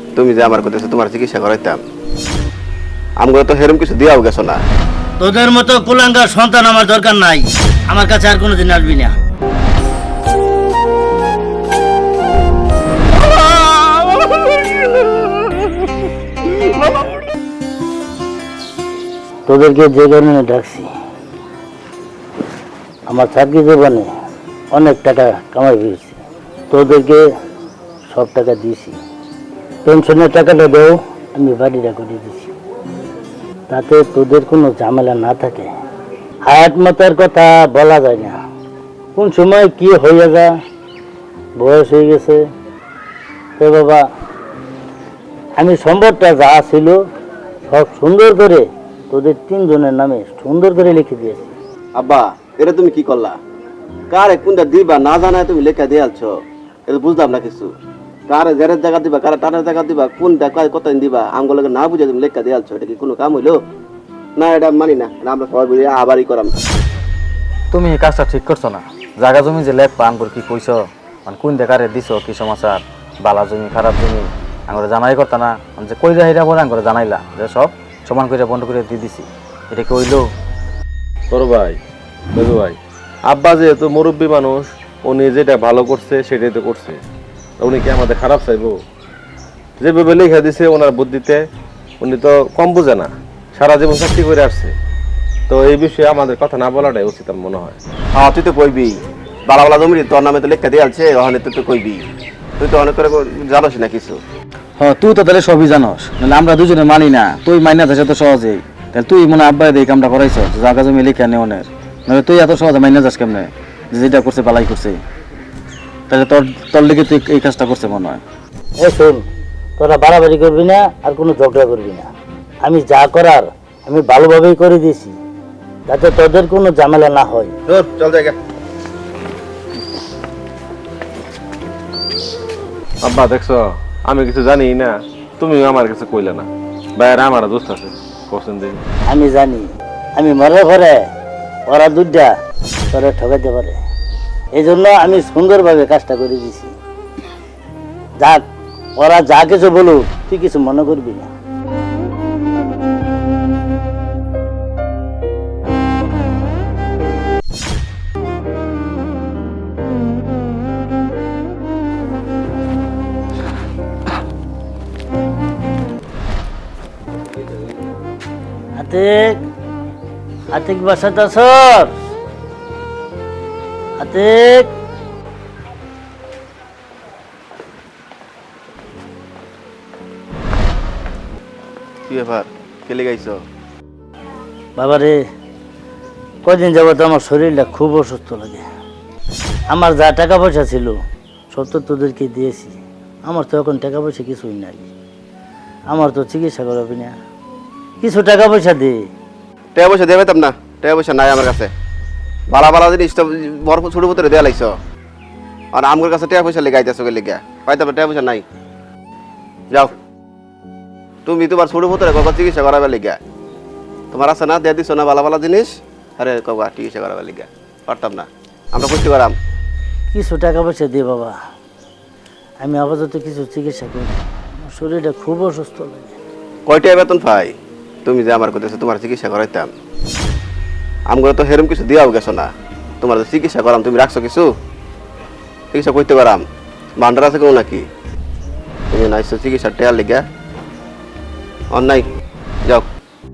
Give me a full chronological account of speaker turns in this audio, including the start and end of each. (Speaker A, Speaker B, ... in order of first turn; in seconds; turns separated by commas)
Speaker A: 0.1-1.8, Speaker A: 3.2-4.6, Speaker B: 5.2-9.2, Speaker C: 13.1-17.3, Speaker B: 19.5-20.9, Speaker B: 23.1-24.1, Speaker B: 24.7-26.2, Speaker B: 26.7-27.3, Speaker B: 28.1-29.0, Speaker B: 29.8-32.5, Speaker B: 33.7-35.7, Speaker B: 36.5-38.4, Speaker B: 39.1-40.6, Speaker B: 41.6-42.5, Speaker B: 43.6-44.1, Speaker B: 45.6-47.0, Speaker B: 47.7-51.5, Speaker A: 51.9-53.4, Speaker A: 54.1-56.4, Speaker A: 56.9-57.7, Speaker A: 58.3-63.6, Speaker A: 64.3-66.5, Speaker D: 67.7-80.2, Speaker C: 81.3-81.8, Speaker C: 82.3-87.0, Speaker C: 87.6-88.8, Speaker C: 89.8-91.4, Speaker C: 92.0-94.7, Speaker C: 95.5-97.8, Speaker A: 98.1-102.0, Speaker A: 102.6-104.2, Speaker D: 104.8-115.0, Speaker D: 116.1-118.2, Speaker B: 118.8-119.2, Speaker B: 119.8-122.1, Speaker B: 122.6-125.2, Speaker B: 125.9-127.5, Speaker A: 127.7-128.3, Speaker C: 133.0-138.8, Speaker B: 139.1-141.1, Speaker B: 141.7-142.3, Speaker B: 142.9-143.8, Speaker B: 144.5-146.7, Speaker B: 148.2-148.4, Speaker B: 148.9-151.3, Speaker B: 168.8-169.4, Speaker B: 170.5-171.9, Speaker B: 174.0-174.7, Speaker A: 182.1-183.4, Speaker B: 184.8-185.2, Speaker B: 186.4-188.6, Speaker B: 189.7-191.0, Speaker B: 191.5-194.9, Speaker B: 195.9-197.2, Speaker B: 198.0-199.1, Speaker A: 199.7-201.7, Speaker A: 202.5-204.7, Speaker A: 205.7-208.4, Speaker A: 211.2-213.2, Speaker A: 214.1-219.3, Speaker B: 220.1-221.4, Speaker B: 222.6-226.1, Speaker A: 226.7-227.5, Speaker A: 228.0-229.7, Speaker A: 231.1-234.5, Speaker A: 235.7-236.4, Speaker A: 237.0-237.8, Speaker A: 238.9-240.2, Speaker A: 241.7-242.0